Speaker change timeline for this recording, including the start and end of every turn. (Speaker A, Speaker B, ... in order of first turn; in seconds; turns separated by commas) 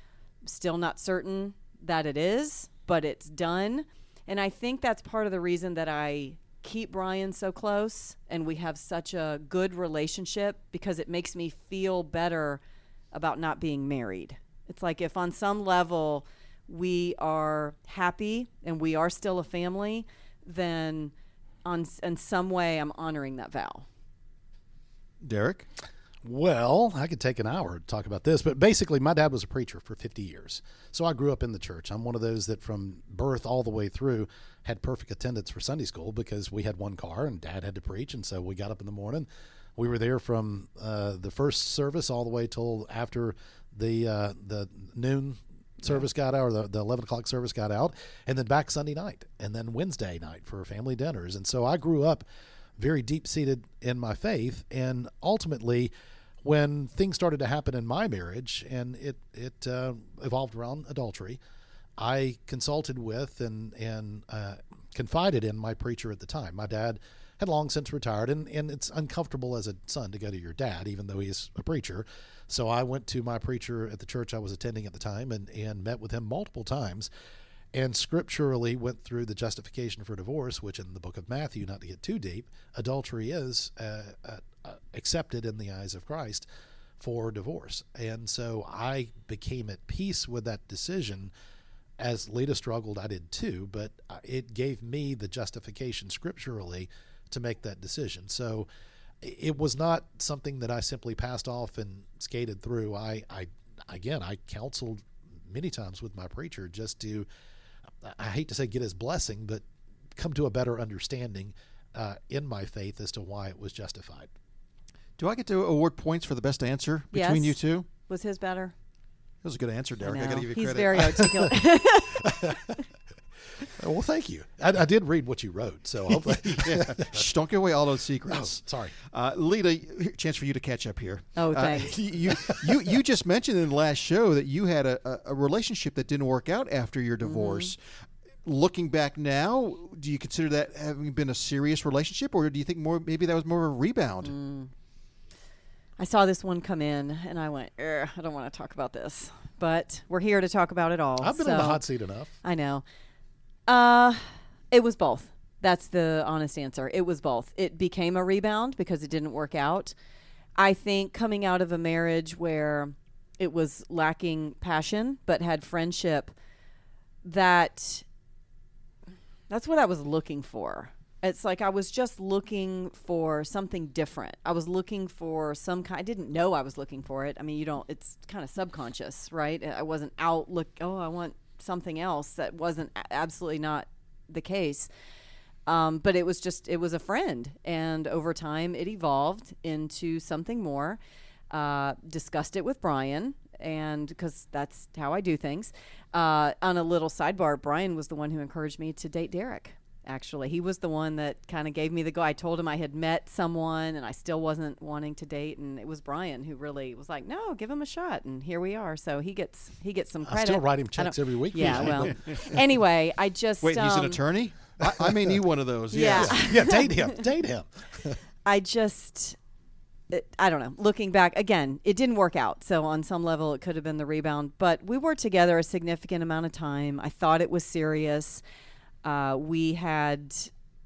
Speaker A: 0.4-12.6, Speaker A: 13.1-21.1, Speaker A: 21.6-23.9, Speaker B: 25.2-25.7, Speaker C: 26.2-52.2, Speaker C: 52.8-55.9, Speaker C: 56.4-61.4, Speaker C: 62.0-77.1, Speaker C: 77.7-86.4, Speaker C: 87.0-91.3, Speaker C: 92.0-98.7, Speaker C: 99.2-107.2, Speaker C: 108.0-109.6, Speaker C: 110.2-114.3, Speaker B: 115.2-117.9, Speaker A: 117.1-118.7, Speaker B: 119.4-121.3, Speaker A: 120.0-122.8, Speaker C: 122.2-122.7, Speaker C: 123.7-127.3, Speaker B: 126.5-137.8, Speaker C: 128.3-128.9, Speaker A: 131.3-132.0, Speaker C: 132.3-132.8, Speaker A: 137.2-137.7, Speaker B: 138.4-144.3, Speaker A: 144.2-144.7, Speaker A: 146.0-151.8, Speaker C: 151.2-152.3, Speaker A: 152.4-152.8, Speaker A: 153.7-159.9, Speaker A: 160.6-166.3, Speaker A: 167.2-168.0, Speaker A: 169.5-184.9, Speaker A: 185.7-191.0, Speaker A: 191.5-214.2, Speaker C: 210.2-212.5, Speaker B: 211.6-212.5, Speaker B: 213.6-216.4, Speaker C: 214.8-215.4, Speaker A: 215.9-217.2, Speaker C: 216.0-218.2, Speaker A: 218.4-219.4, Speaker A: 220.1-228.4, Speaker A: 229.0-230.5